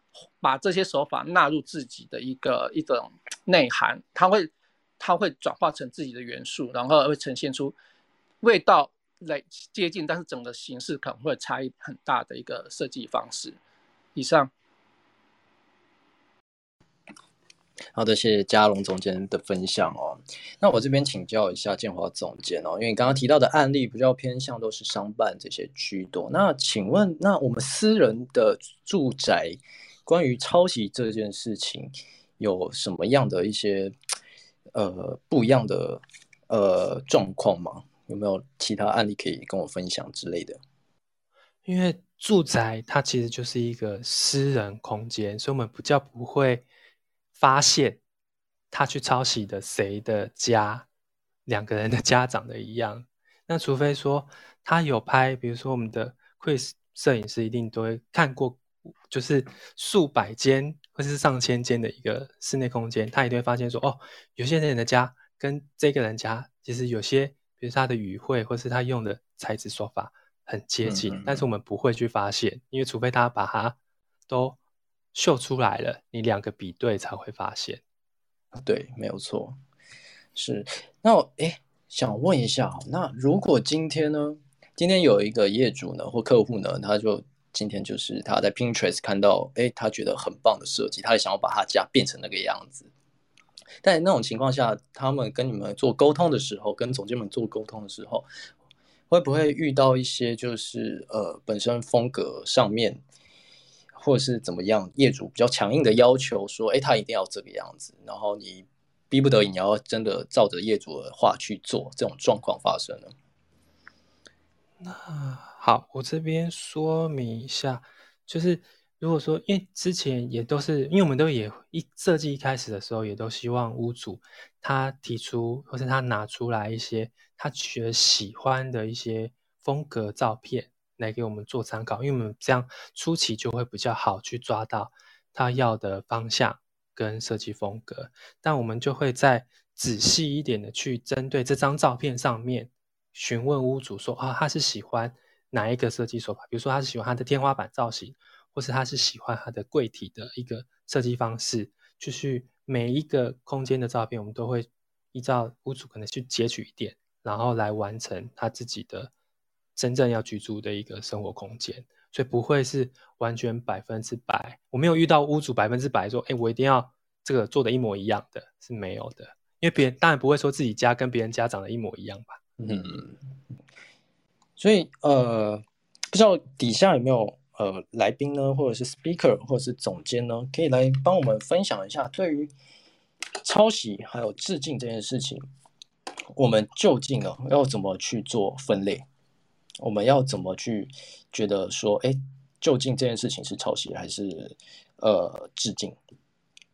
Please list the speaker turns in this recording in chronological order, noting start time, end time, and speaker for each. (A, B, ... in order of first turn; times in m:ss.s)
0:00.4-0:07.8 A
0:08.4-0:13.6 A
0:14.2-0:14.5 A
0:18.0-0:33.9 B
0:34.7-0:40.6 B
0:41.6-0:46.6 C
0:47.4-0:48.0 C
0:48.7-0:50.9 C
0:51.5-1:13.8 C
1:10.8-1:11.5 B
1:14.3-1:14.6 C
1:15.1-1:17.8 C
1:18.6-1:19.6 B
1:20.4-1:32.9 B
1:33.8-1:38.3 B
1:39.1-1:43.0 B
1:44.0-1:53.1 B
1:54.8-2:39.1 C
2:39.8-2:52.4 C
2:52.6-2:53.2 B
2:54.6-3:02.5 B
3:03.4-3:05.5 B
3:06.4-3:09.0 B
3:09.8-3:16.0 B